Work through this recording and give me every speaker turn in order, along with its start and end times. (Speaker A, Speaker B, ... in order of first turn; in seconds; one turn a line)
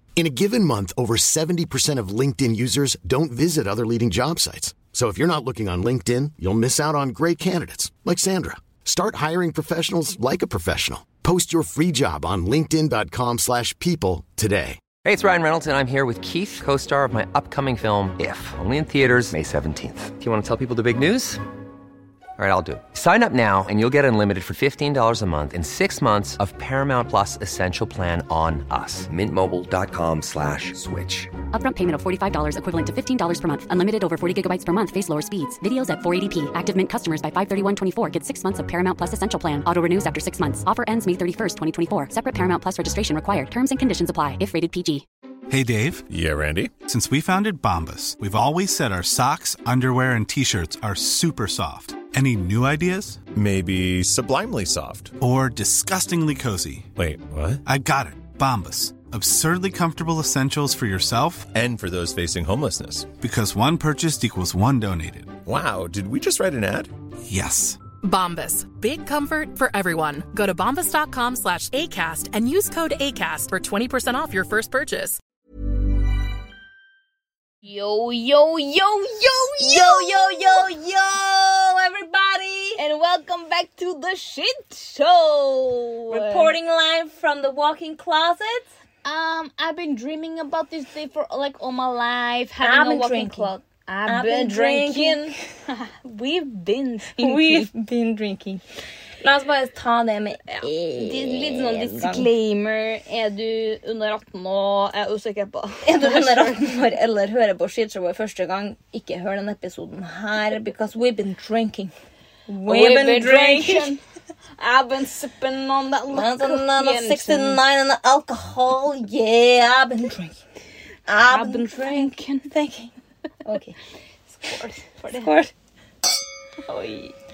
Speaker A: 0.2-14.8
Speaker B: 15.0-21.4
Speaker B: 22.4-31.4
Speaker C: 31.5-45.0
Speaker D: 45.5-46.1
Speaker E: 46.1-46.7
Speaker D: 46.8-53.2
Speaker E: 53.3-55.1
Speaker D: 55.2-56.9
Speaker E: 57.0-57.6
Speaker D: 57.6-61.5
Speaker E: 61.5-63.1
Speaker D: 63.2-65.4
Speaker E: 65.5-66.9
Speaker D: 67.3-67.8
Speaker F: 68.0-75.2
Speaker G: 77.7-80.7
Speaker H: 79.6-82.8
Speaker G: 82.8-86.5
Speaker H: 86.1-88.7
Speaker G: 89.0-97.7
Speaker H: 92.6-95.4
Speaker H: 97.2-98.6
Speaker H: 99.2-102.3
Speaker G: 100.5-106.8
Speaker H: 105.8-111.9
Speaker H: 112.5-114.0
Speaker G: 112.6-114.0
Speaker G: 114.6-117.6
Speaker H: 116.1-120.4
Speaker H: 121.1-122.9
Speaker G: 121.3-122.5
Speaker H: 123.5-123.8
Speaker G: 124.3-125.3
Speaker H: 125.1-125.5
Speaker G: 126.7-127.1